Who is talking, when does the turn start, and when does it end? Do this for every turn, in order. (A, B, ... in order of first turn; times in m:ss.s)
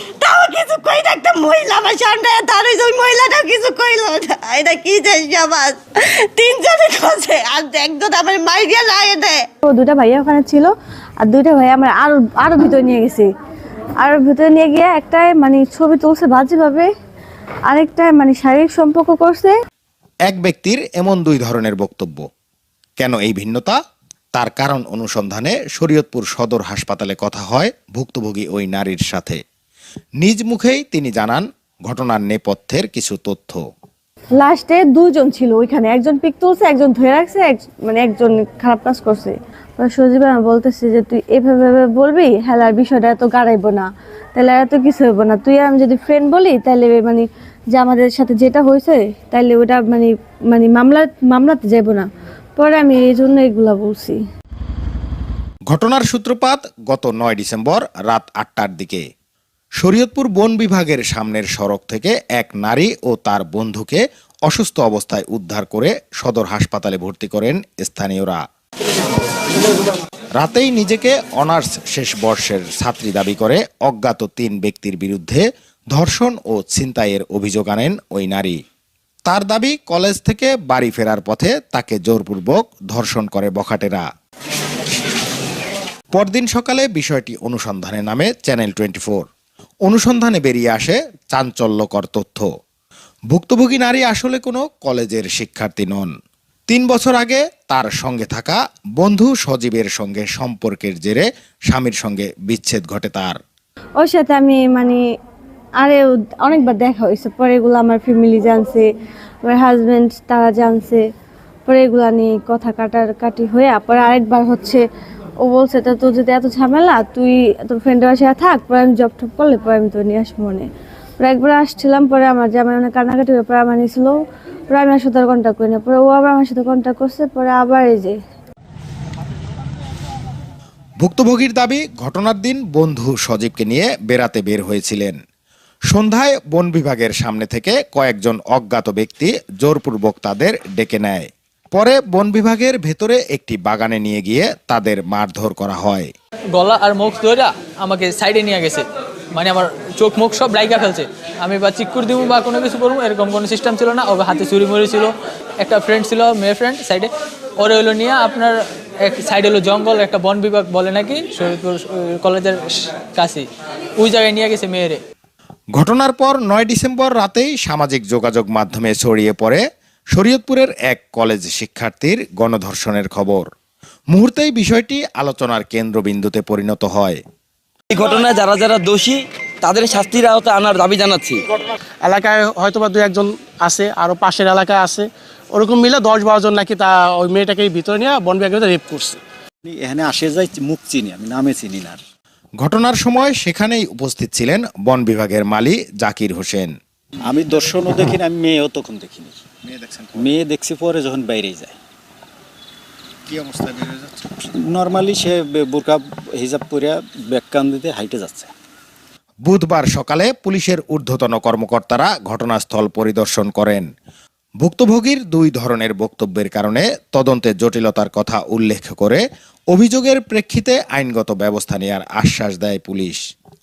0:00.2-0:09.5 A
0:09.6-0:13.3 B
0:14.0-0:16.9 B
0:17.7-0:19.6 B
0:20.3-0:22.2 C
0:23.0-0:23.8 C
0:24.4-0:29.4 C
0:30.2-0:33.6 C
0:34.4-0:54.2 B
0:55.7-0:59.0 C
0:59.8-1:08.4 C
1:10.4-1:18.6 C
1:19.3-1:24.0 C
1:26.1-1:29.2 C
1:29.9-1:32.5 C
1:33.3-1:36.1 C
1:36.7-1:43.4 C
1:44.0-1:45.0 B
1:45.8-1:48.9 B
1:49.4-1:51.0 B
1:51.7-1:54.8 B
1:55.4-2:00.7 B
2:01.2-2:04.2 B
2:04.7-2:08.2 B
2:11.0-2:15.2 C
2:15.9-2:26.1 C
2:26.6-2:28.8 D
2:29.4-2:43.4 D
2:44.0-2:45.0 D
2:45.8-2:49.6 C
2:50.1-2:53.4 C
2:54.1-2:57.2 C
2:57.9-3:01.4 E
3:02.0-3:09.2 F
3:09.6-3:12.0 G
3:12.6-3:16.7 C
3:17.3-3:21.8 G
3:23.3-3:28.5 G
3:29.5-3:33.9 C
3:34.6-3:43.2 C